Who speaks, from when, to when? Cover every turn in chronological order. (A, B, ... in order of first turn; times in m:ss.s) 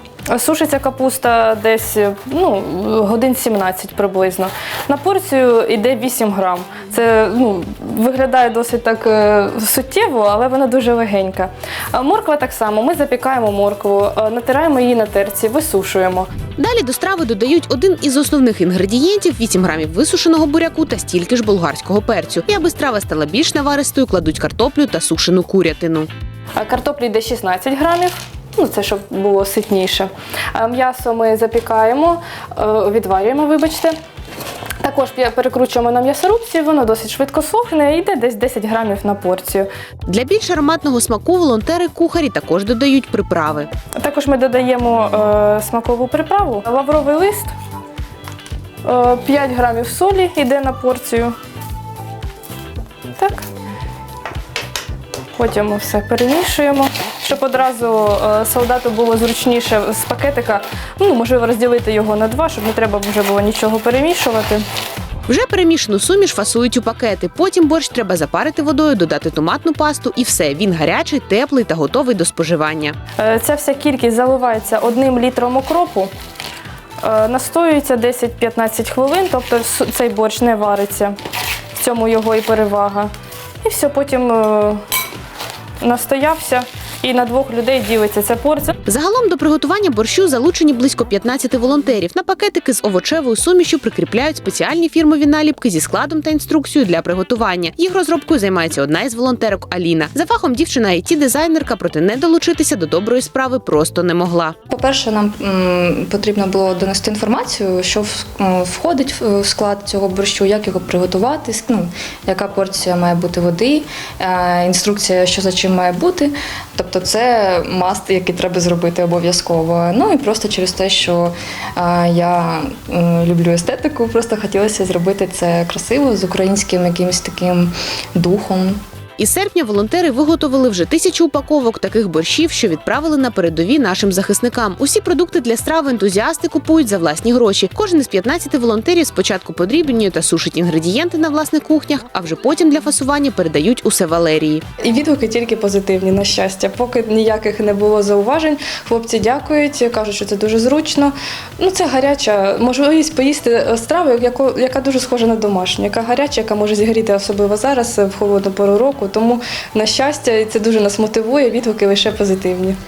0:00.3-0:16.3 A
0:16.6-0:26.1 B
0:26.6-0:34.0 A
0:34.8-0:39.7 A
0:40.0-0:43.7 B
0:44.0-0:47.5 A
0:48.8-0:51.3 A
0:53.1-0:53.4 A
0:55.4-1:04.6 A
1:05.3-1:13.0 B
1:13.2-1:16.1 A
1:17.0-1:21.2 A
1:21.8-1:23.1 A
1:23.6-1:24.8 A
1:25.8-1:28.8 A
1:28.9-1:44.5 B
1:44.7-2:08.8 C
2:09.2-2:24.6 B
2:24.8-2:42.8 A